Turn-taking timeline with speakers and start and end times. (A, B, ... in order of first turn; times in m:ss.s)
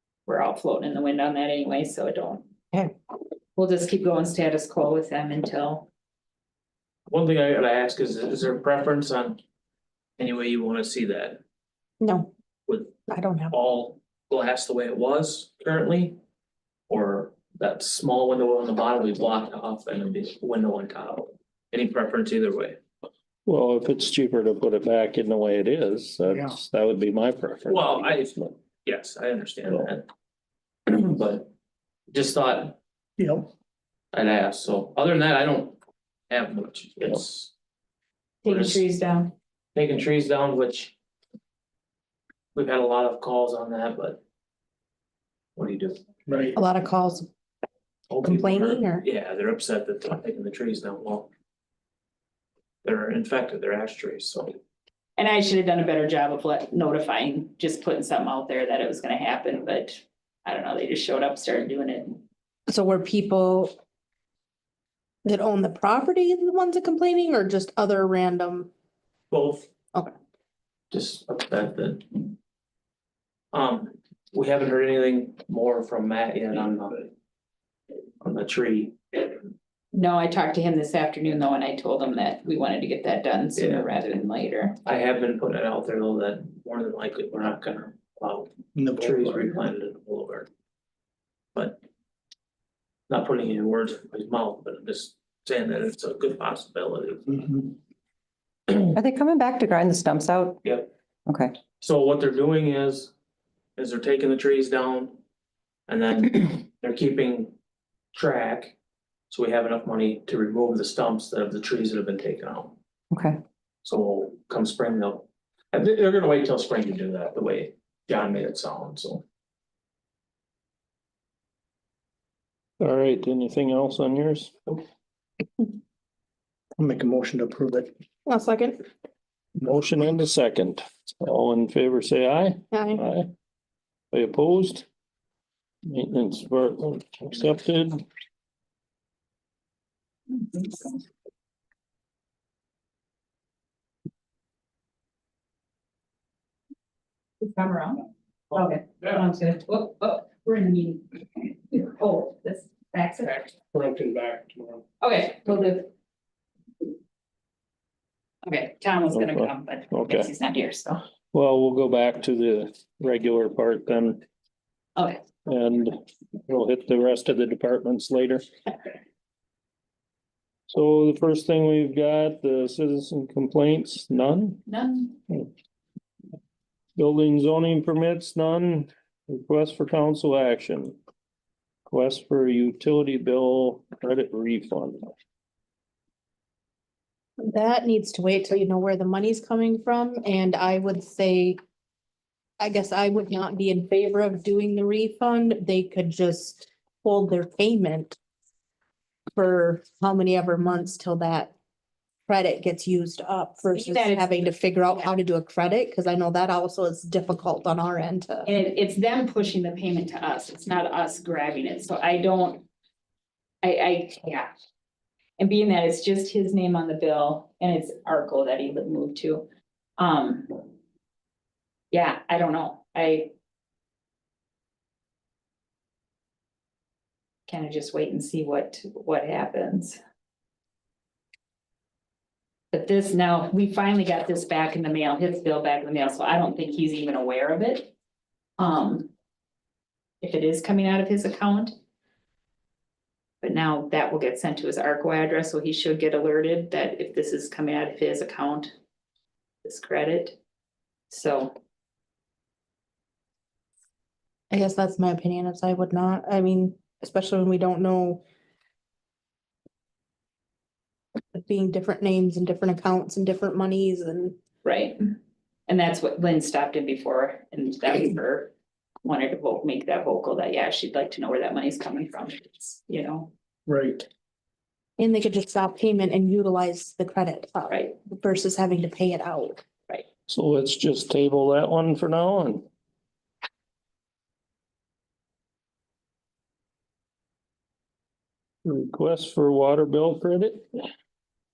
0:00.3-0:02.4 A
0:03.6-0:05.9 A
0:07.1-0:09.4 B
0:10.2-0:11.4 B
0:12.0-0:12.3 C
0:12.7-0:13.0 B
0:13.1-0:13.6 C
0:13.5-0:16.2 B
0:16.9-0:22.8 B
0:23.5-0:28.6 D
0:26.3-0:26.6 E
0:27.7-0:30.1 B
0:30.9-0:31.5 B
0:32.1-0:32.8 B
0:33.2-0:33.5 E
0:34.1-0:35.8 B
0:36.3-0:37.5 B
0:38.4-0:39.3 A
0:38.5-0:38.8 B
0:39.8-0:41.0 B
0:42.6-0:44.2 B
0:45.6-0:46.0 B
0:46.3-0:46.6 E
0:46.6-0:47.3 C
0:48.1-0:51.3 B
0:48.2-0:49.1 C
0:52.8-0:54.5 B
0:55.2-1:02.2 A
1:02.7-1:03.7 C
1:05.2-1:08.7 C
1:09.3-1:09.7 B
1:10.9-1:12.3 B
1:13.5-1:17.1 B
1:18.2-1:19.4 B
1:19.9-1:24.8 A
1:23.6-1:23.9 B
1:24.8-1:30.5 B
1:28.8-1:29.5 E
1:31.6-1:31.8 B
1:33.1-1:37.5 B
1:37.4-1:37.7 E
1:38.9-1:40.6 F
1:40.6-1:40.9 B
1:41.3-1:41.6 F
1:41.8-1:43.1 B
1:43.8-1:45.2 B
1:45.9-1:47.6 B
1:48.1-1:48.8 B
1:49.3-1:52.8 B
1:53.1-1:53.4 F
1:53.8-1:59.2 B
2:02.8-2:04.6 D
2:06.8-2:07.9 E
2:08.3-2:08.8 C
2:09.6-2:13.3 D
2:12.7-2:13.0 C
2:14.1-2:14.9 D
2:15.9-2:18.0 D
2:20.4-2:20.8 A
2:27.4-2:33.6 A
2:33.7-2:34.8 E
2:35.0-2:35.9 A
2:38.4-2:41.0 A
2:39.1-2:40.3 D
2:41.3-2:44.2 D
2:45.0-2:45.2 A
2:45.5-2:45.9 D
2:46.5-2:48.4 D
2:50.7-2:54.6 D
2:54.7-2:55.1 A
2:57.0-3:01.0 D
3:01.9-3:05.0 D
3:07.4-3:11.6 C
3:12.6-3:18.2 C
3:19.4-3:21.5 C
3:22.3-3:28.5 C
3:23.8-3:25.1 A
3:28.5-3:32.7 A
3:33.6-3:34.5 A
3:35.4-3:39.5 A
3:40.0-3:40.6 A
3:41.9-3:43.3 A
3:47.5-3:50.0 A
3:52.7-3:57.9 A
3:58.6-3:59.1 A
4:00.2-4:01.7 A
4:03.4-4:08.7 A
4:09.6-4:10.4 A
4:11.1-4:11.5 A
4:14.5-4:18.2 C
4:21.3-4:24.4 C
4:24.6-4:25.2 A
4:25.7-4:28.5 A
4:29.0-4:33.3 A
4:33.7-4:34.1 E
4:35.0-4:39.6 C
4:37.7-4:38.0 A
4:40.3-4:42.6 D
4:48.6-4:50.7 D